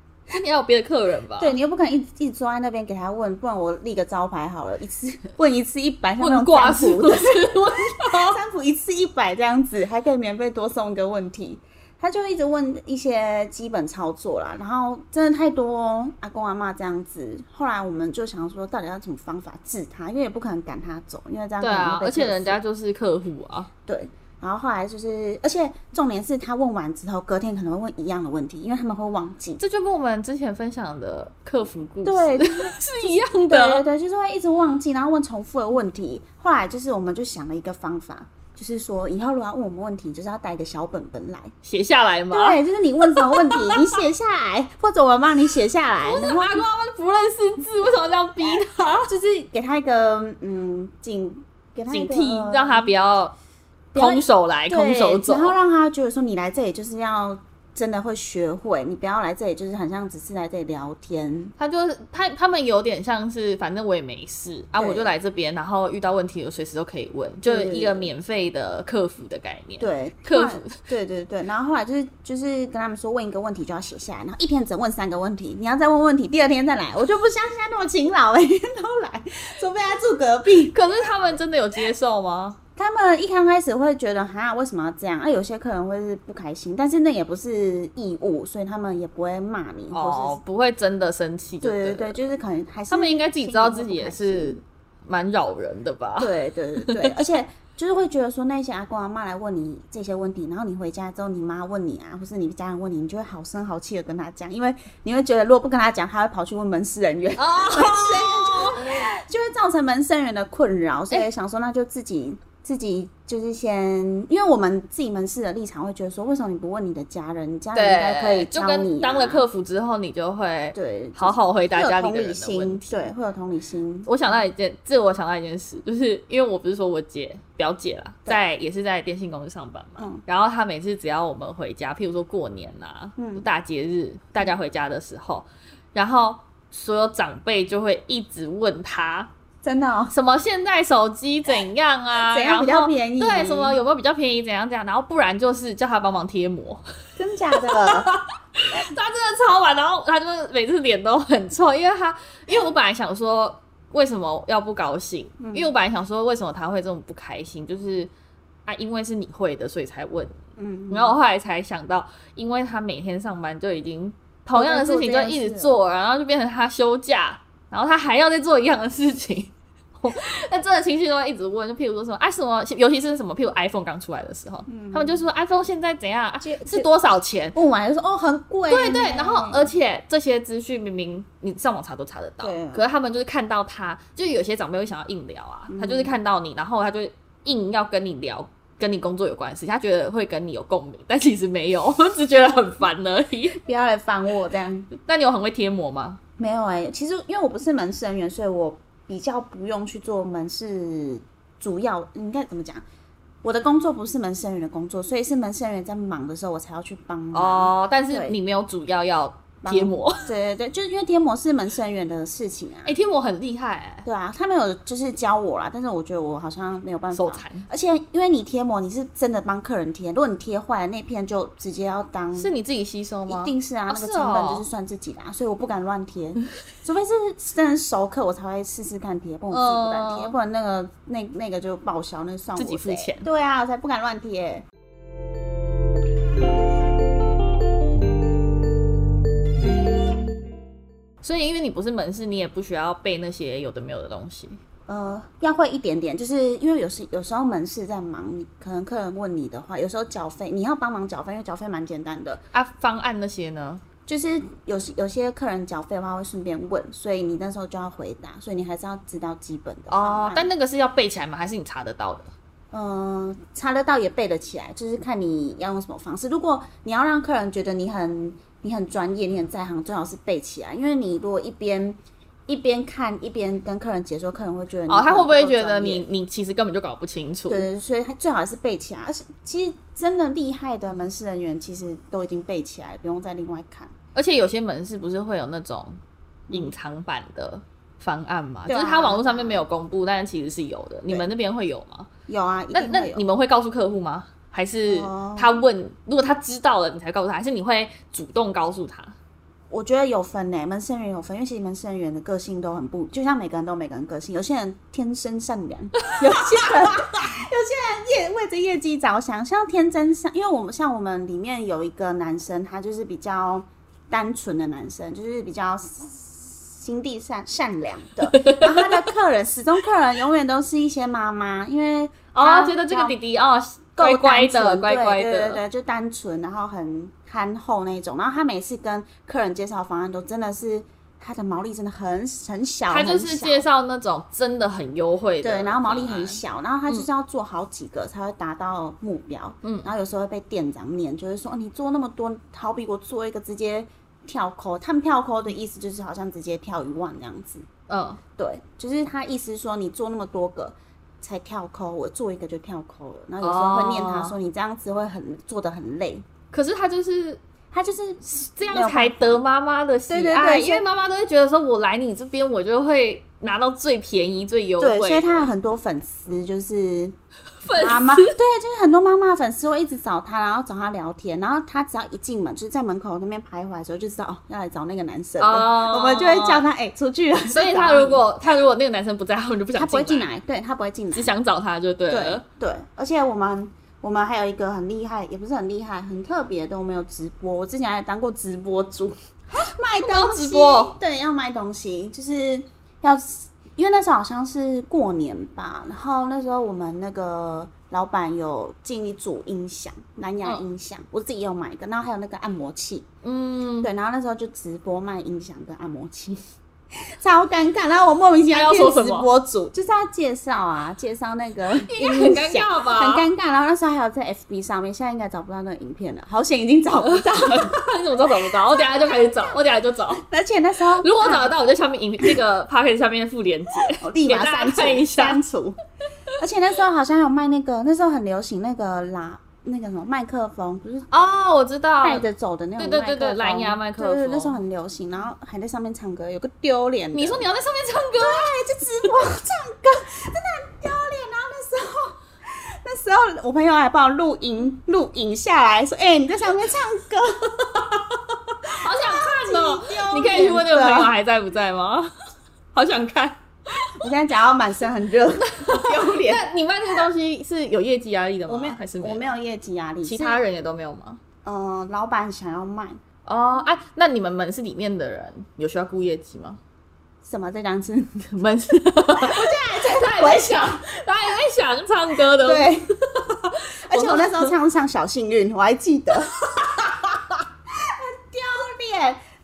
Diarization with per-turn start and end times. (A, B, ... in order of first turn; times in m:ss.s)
0:00.3-0:01.6 A
0:01.4-0:22.6 B
0:06.2-0:08.4 A
0:21.6-0:23.7 A
0:23.9-0:29.6 B
0:29.6-0:33.8 A
0:32.0-0:41.5 B
0:41.6-0:44.0 A
0:42.3-0:46.6 B
0:46.0-0:49.1 A
0:49.1-0:52.9 B
0:51.9-0:53.3 A
0:53.9-1:01.5 B
0:54.0-0:55.6 A
1:01.6-1:10.8 A
1:04.8-1:05.1 B
1:07.4-1:08.1 B
1:09.8-1:20.8 B
1:20.7-1:22.6 A
1:22.8-1:30.4 B
1:29.9-1:32.2 A
1:31.6-1:34.6 B
1:32.9-1:37.2 A
1:36.2-1:59.4 B
1:47.4-1:49.1 A
1:57.8-2:02.9 A
2:00.7-2:04.1 B
2:04.1-2:19.3 A
2:10.0-2:10.2 B
2:13.2-2:13.5 B
2:19.6-2:20.1 B
2:20.1-2:26.8 A
2:22.2-2:23.8 B
2:27.2-2:28.1 B
2:27.5-2:38.1 A
2:35.4-2:35.7 B
2:38.7-2:57.6 A
2:40.6-2:41.2 B
2:44.5-2:45.8 B
2:54.7-2:55.2 B
2:56.4-2:56.9 B
2:57.6-2:59.7 B
2:58.7-3:13.6 A
3:02.4-3:02.9 B
3:05.7-3:06.1 B
3:13.5-3:14.9 B
3:14.9-3:16.2 A
3:16.4-3:22.8 B
3:23.4-3:28.4 B
3:27.3-3:30.3 A
3:29.6-3:33.0 B
3:32.8-3:34.1 A
3:34.0-3:42.5 B
3:37.1-3:37.7 A
3:42.4-3:44.7 A
3:43.3-3:54.6 B
3:49.5-3:50.4 A
3:52.6-3:53.3 A
4:01.2-4:04.6 A
4:04.9-4:12.4 B
4:12.5-4:13.8 A
4:14.1-4:20.5 B
4:19.9-4:22.3 A
4:22.7-4:36.1 B
4:34.9-4:37.7 A
4:37.5-4:43.9 B
4:44.2-4:52.1 A
4:48.7-4:49.6 B
4:52.3-4:53.2 B
4:52.7-4:59.2 A
4:54.9-4:55.6 B
4:59.7-5:23.2 B
5:06.0-5:06.9 A
5:18.3-5:19.0 A
5:22.3-5:25.6 A
5:24.0-5:33.7 B
5:32.9-5:37.1 A
5:35.4-5:47.7 B
5:39.6-5:39.9 A
5:47.9-5:48.2 A
5:48.4-5:56.2 B
5:53.4-5:54.4 A
5:56.5-5:57.4 A
5:57.7-5:59.4 B
5:58.6-6:05.5 A
6:00.1-6:00.9 B
6:04.8-6:07.2 B
6:07.6-6:08.4 A
6:07.7-6:18.2 B
6:15.4-6:16.6 A
6:17.5-6:20.3 A
6:19.7-6:21.3 B
6:21.1-6:22.4 A
6:22.1-6:43.1 B
6:30.0-6:31.0 A
6:43.2-6:43.9 A
6:43.8-6:46.4 B
6:46.9-6:57.8 B
6:48.5-6:49.3 A
6:51.8-6:53.3 A
6:57.1-7:00.2 A
6:58.4-6:59.6 B
7:00.1-7:01.5 B
7:01.0-7:05.4 A
7:03.8-7:05.8 B
7:06.4-7:11.1 B
7:11.1-7:12.3 A
7:12.0-7:17.4 B
7:12.8-7:14.6 A
7:17.1-7:18.6 A
7:18.2-7:27.9 B
7:28.7-7:32.1 A
7:28.7-7:31.1 B
7:32.7-7:34.0 A
7:34.0-7:36.5 B
7:35.5-7:39.3 A
7:38.5-7:40.4 B
7:40.0-7:41.2 A
7:41.4-7:43.0 B
7:43.3-7:46.6 A
7:47.2-7:48.3 B
7:48.3-7:54.5 A
7:49.1-7:50.9 B
7:52.3-7:52.9 B
7:53.9-7:57.2 B
7:57.8-7:59.2 B